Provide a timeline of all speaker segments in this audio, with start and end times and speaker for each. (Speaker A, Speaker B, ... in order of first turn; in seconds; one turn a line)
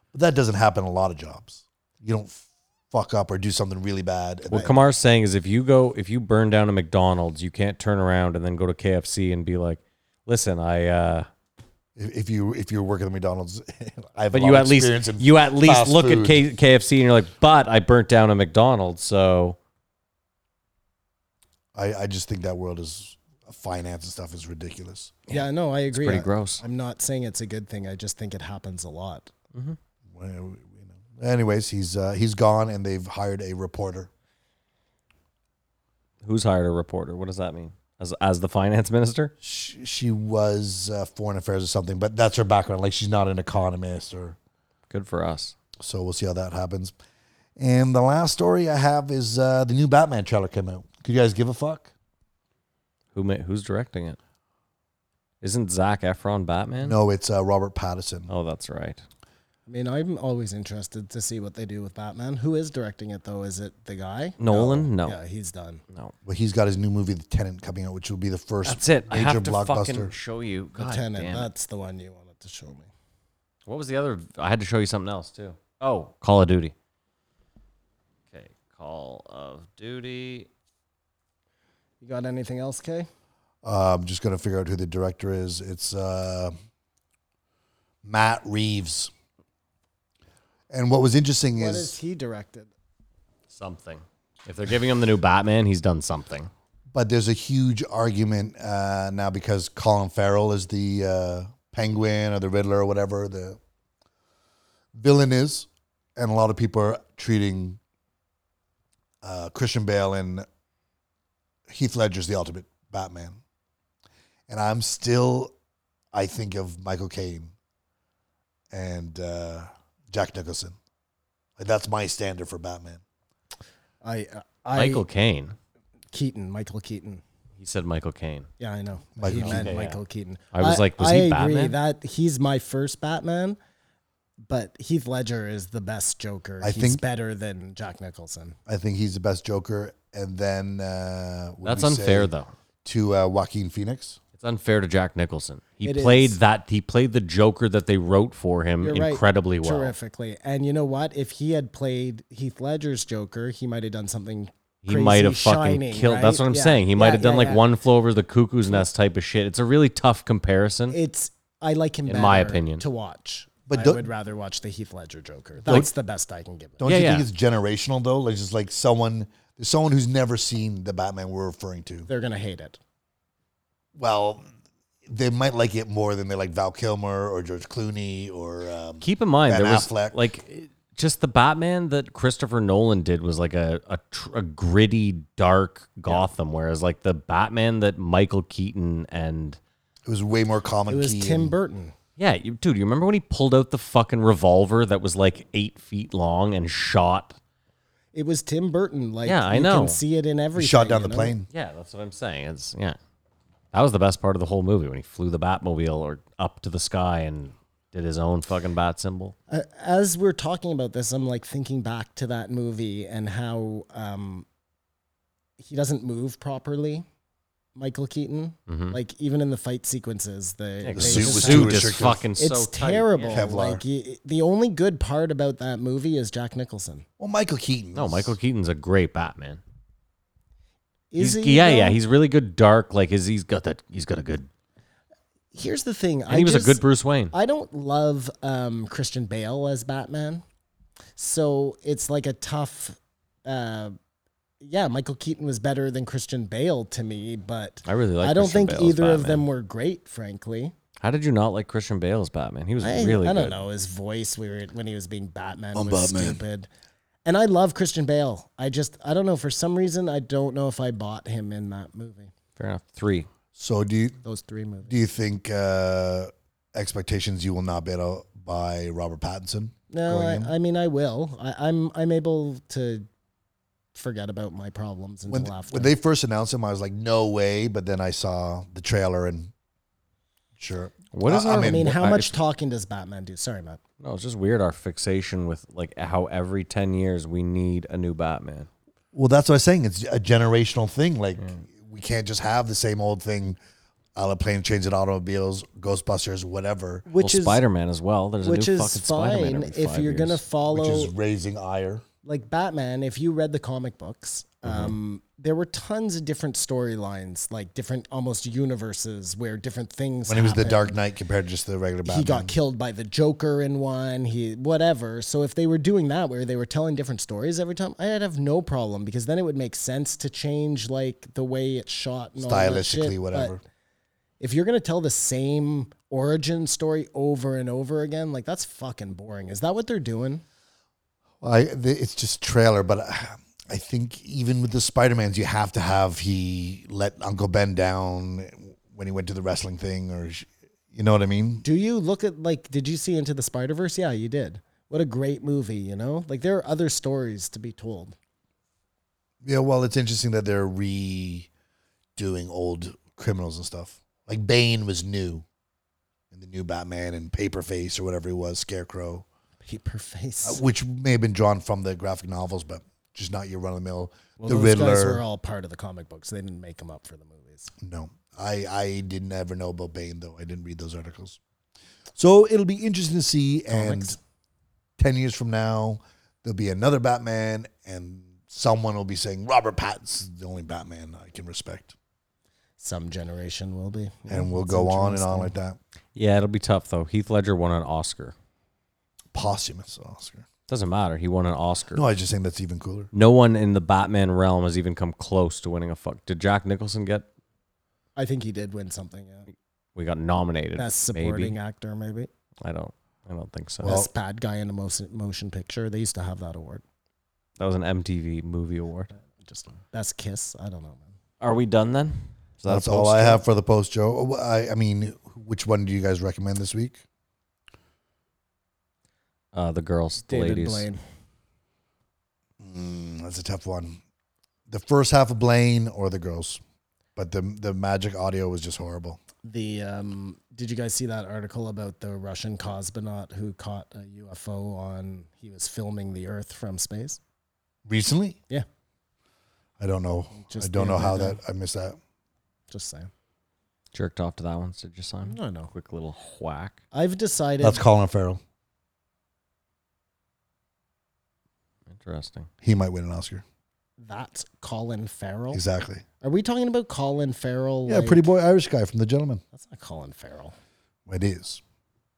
Speaker A: 0.1-4.7
Speaker B: 4.5-11.3
Speaker A: 12.0-16.4
Speaker B: 14.3-19.6
Speaker A: 21.8-25.2
Speaker B: 25.3-26.6
Speaker C: 25.3-29.3
Speaker A: 30.1-34.1
Speaker B: 36.2-39.3
Speaker A: 39.4-44.4
Speaker B: 44.9-45.5
Speaker A: 45.8-47.0
Speaker A: 47.6-51.9
Speaker B: 53.1-54.2
Speaker B: 55.4-57.0
Speaker A: 56.8-58.3
Speaker B: 58.3-59.0
Speaker C: 59.7-65.8
Speaker B: 64.4-65.2
Speaker A: 66.2-70.1
Speaker B: 68.7-71.5
Speaker C: 70.8-72.9
Speaker B: 73.7-76.7
Speaker B: 78.3-80.5
Speaker C: 82.0-83.1
Speaker A: 83.6-86.5
Speaker A: 88.0-89.1
Speaker A: 90.7-92.0
Speaker C: 91.6-92.7
Speaker B: 93.5-96.5
Speaker A: 96.9-103.6
Speaker A: 105.0-107.8
Speaker A: 109.2-110.5
Speaker A: 111.7-113.4
Speaker A: 114.5-115.5
Speaker A: 116.1-117.5
Speaker A: 118.7-120.8
Speaker A: 121.6-123.0
Speaker C: 124.0-125.0
Speaker B: 124.8-125.5
Speaker C: 126.1-127.2
Speaker B: 127.6-128.5
Speaker C: 128.6-133.6
Speaker A: 129.2-129.7
Speaker B: 129.2-130.0
Speaker B: 130.5-131.8
Speaker C: 134.4-138.6
Speaker A: 136.6-137.0
Speaker A: 138.7-142.3
Speaker B: 141.6-142.5
Speaker A: 142.8-144.2
Speaker B: 144.4-149.9
Speaker C: 145.8-146.4
Speaker C: 148.8-157.7
Speaker B: 154.8-161.0
Speaker C: 160.9-166.8
Speaker B: 162.1-162.8
Speaker A: 163.7-164.1
Speaker A: 166.8-172.1
Speaker B: 166.8-167.3
Speaker C: 172.1-172.8
Speaker A: 174.0-174.5
Speaker A: 175.1-180.2
Speaker B: 179.0-189.6
Speaker A: 190.1-191.6
Speaker C: 190.9-191.9
Speaker B: 192.2-197.4
Speaker C: 198.1-201.3
Speaker B: 199.2-200.0
Speaker A: 200.6-201.5
Speaker B: 201.5-203.0
Speaker B: 203.7-209.3
Speaker C: 209.5-214.5
Speaker C: 215.6-217.1
Speaker C: 217.8-227.1
Speaker B: 218.7-219.0
Speaker B: 220.8-223.4
Speaker A: 220.9-222.3
Speaker A: 223.3-223.8
Speaker A: 227.2-228.3
Speaker B: 227.9-229.6
Speaker C: 231.1-232.0
Speaker B: 231.2-234.5
Speaker C: 235.5-240.4
Speaker B: 236.3-237.3
Speaker C: 241.2-244.0
Speaker C: 244.6-250.7
Speaker B: 247.8-249.4
Speaker B: 251.0-253.6
Speaker C: 252.8-256.7
Speaker A: 255.8-256.4
Speaker C: 257.2-262.3
Speaker B: 262.6-263.3
Speaker A: 263.6-264.2
Speaker C: 264.2-265.0
Speaker A: 264.9-270.5
Speaker C: 269.9-273.1
Speaker C: 273.9-275.9
Speaker A: 275.3-279.5
Speaker A: 280.6-282.0
Speaker B: 281.1-282.4
Speaker C: 281.4-283.8
Speaker B: 284.0-288.7
Speaker A: 289.1-293.6
Speaker A: 294.2-297.1
Speaker C: 297.1-297.6
Speaker B: 297.2-300.4
Speaker C: 298.4-301.1
Speaker A: 300.7-302.1
Speaker C: 302.2-311.0
Speaker B: 304.6-304.9
Speaker A: 310.3-312.6
Speaker C: 312.1-323.6
Speaker A: 322.4-323.6
Speaker C: 324.4-330.4
Speaker A: 331.4-341.6
Speaker C: 341.6-348.2
Speaker A: 349.4-351.5
Speaker A: 352.2-355.4
Speaker A: 356.3-359.2
Speaker C: 359.6-360.6
Speaker A: 360.4-365.2
Speaker C: 364.4-367.7
Speaker A: 367.8-371.4
Speaker A: 372.2-374.2
Speaker C: 373.7-374.2
Speaker A: 375.0-381.9
Speaker C: 382.8-385.5
Speaker A: 384.3-385.8
Speaker B: 386.1-388.3
Speaker A: 389.3-390.5
Speaker B: 390.7-392.0
Speaker A: 391.9-393.1
Speaker B: 393.1-397.3
Speaker C: 398.2-399.5
Speaker B: 399.9-401.6
Speaker C: 400.8-402.3
Speaker B: 402.6-404.0
Speaker A: 403.8-404.1
Speaker C: 403.8-406.8
Speaker B: 407.6-409.1
Speaker C: 409.3-411.1
Speaker B: 411.4-413.4
Speaker A: 412.7-417.0
Speaker B: 419.5-420.9
Speaker C: 420.3-421.0
Speaker A: 422.6-424.0
Speaker A: 424.7-426.6
Speaker A: 427.2-429.2
Speaker C: 429.4-437.2
Speaker A: 437.9-438.4
Speaker A: 439.8-442.0
Speaker C: 440.4-441.4
Speaker C: 442.7-443.1
Speaker B: 443.9-446.8
Speaker C: 445.3-445.7
Speaker C: 446.9-447.8
Speaker A: 447.6-448.4
Speaker B: 451.9-452.5
Speaker A: 452.6-453.4
Speaker C: 454.0-455.6
Speaker A: 455.5-456.0
Speaker C: 456.2-458.3
Speaker A: 457.9-459.4
Speaker C: 459.5-460.6
Speaker A: 461.1-461.6